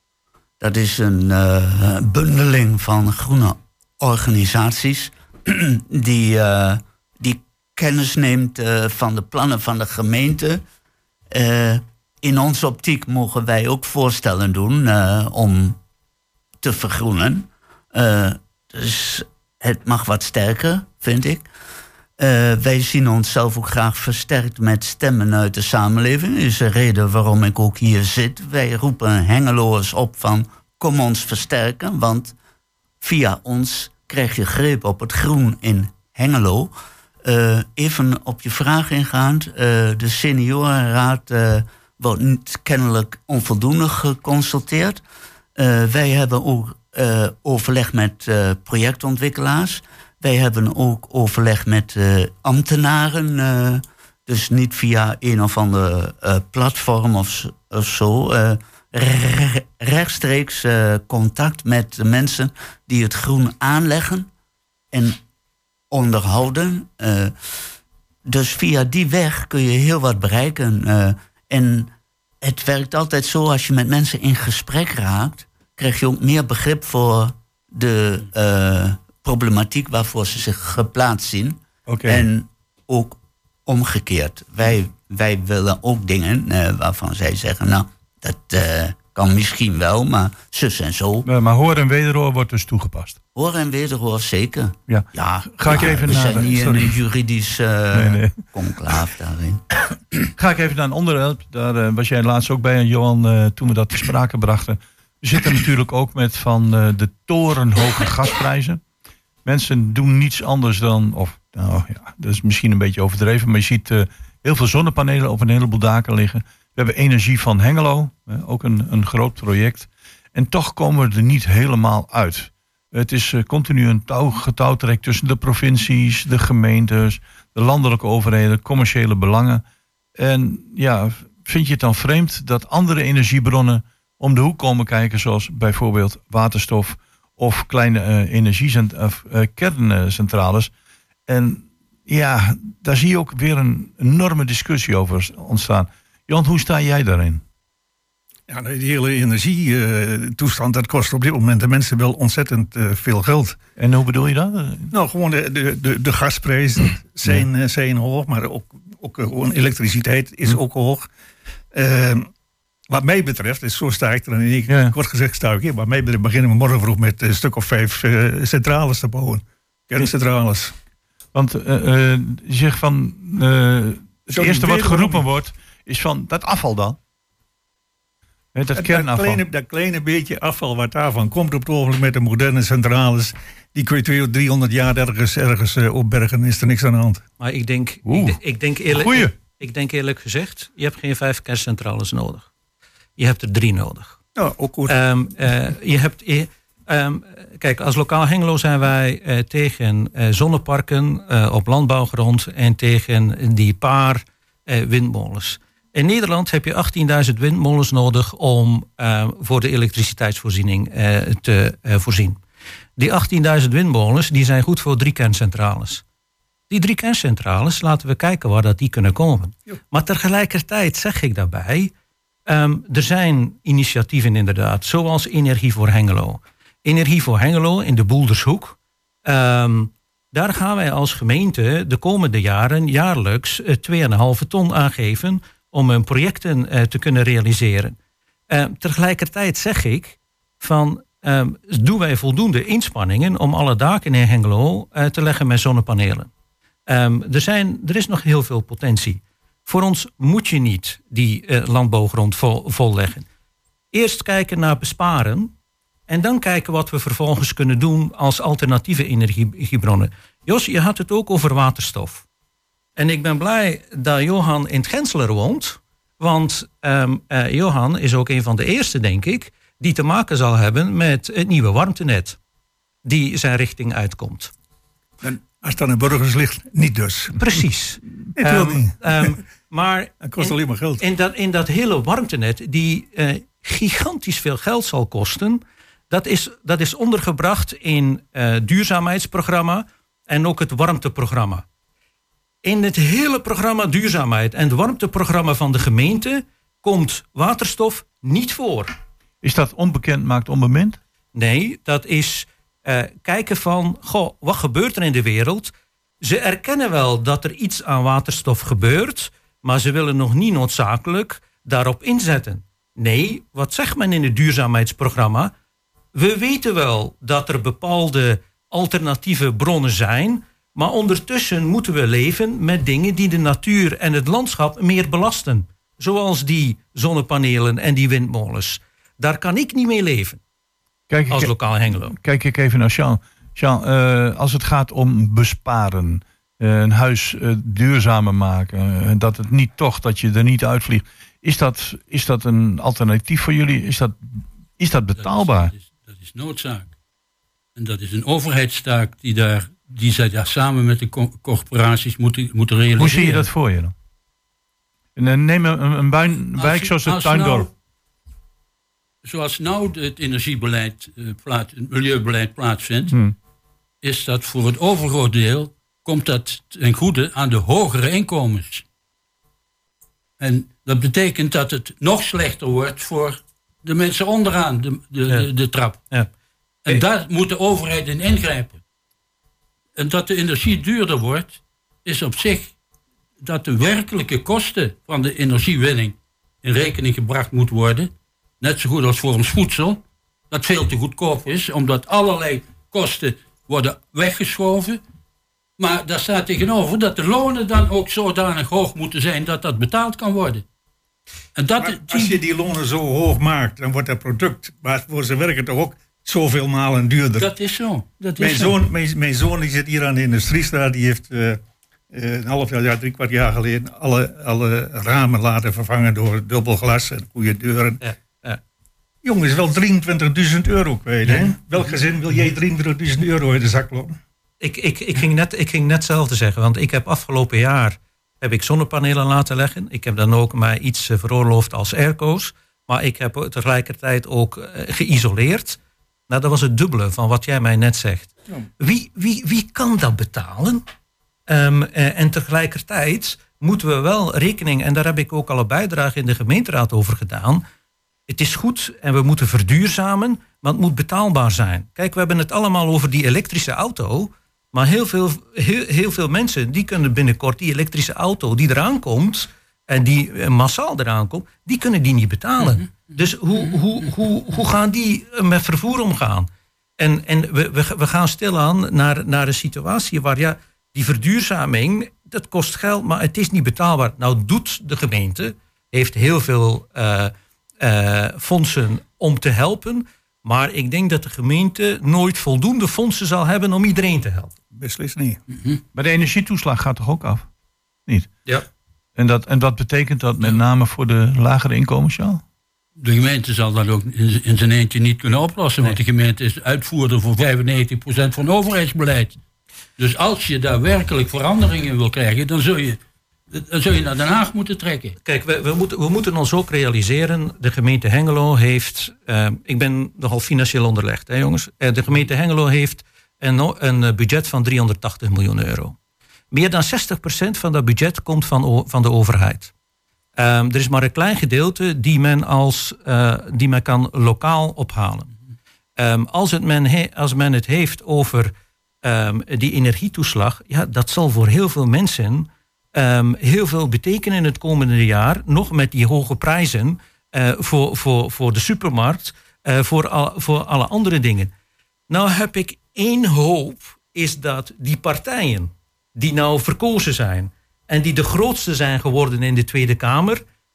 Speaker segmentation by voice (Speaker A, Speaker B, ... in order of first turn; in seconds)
Speaker A: 0.6-10.6, 11.3-15.8, 16.6-21.5, 22.2-32.3, 33.0-36.7, 37.2-45.0, 45.5-64.3, 64.9-65.2, 65.9-67.3, 68.2-91.3, 93.3-99.8
Speaker B: 81.9-82.2, 91.2-93.2, 94.9-96.8, 97.9-98.4, 100.4-108.8, 109.4-129.6, 130.2-140.7, 141.3-147.4, 153.8-154.9, 164.7-164.9, 171.3-177.0, 178.5-179.4, 188.0-189.3, 299.4-301.0, 331.1-345.7, 352.9-353.9, 355.1-357.7, 363.1-363.3, 485.9-487.5, 489.2-492.4
Speaker C: 95.7-96.9, 148.5-153.6, 154.9-161.1, 161.7-162.3, 162.9-170.7, 174.3-175.2, 178.8-187.2, 194.4-194.9, 275.2-277.5, 278.4-279.4, 280.2-281.0, 401.8-407.5, 408.4-411.6, 412.1-418.0, 419.2-424.1, 484.7-485.4
Speaker D: 187.4-192.5, 193.2-194.2, 194.9-212.4, 213.0-216.0, 216.7-221.9, 222.5-237.9, 238.5-246.3, 246.9-253.2, 253.9-255.5, 256.1-262.2, 263.0-272.4, 273.0-274.5, 277.4-291.6, 292.6-298.9, 301.3-315.5, 316.1-330.4, 331.3-332.2, 418.0-418.6, 424.6-435.8, 436.3-440.8, 441.5-447.6, 448.3-484.5, 505.2-515.9, 516.5-519.7, 520.4-525.3, 526.0-541.5, 542.1-550.4
Speaker E: 345.2-346.9, 347.8-353.5, 356.6-357.7, 359.2-363.1, 364.0-368.8, 370.4-376.0, 376.9-378.8, 379.9-382.7, 383.4-395.0, 395.8-400.6, 401.6-402.4, 407.4-408.8, 493.0-499.4, 500.0-503.0, 503.5-505.1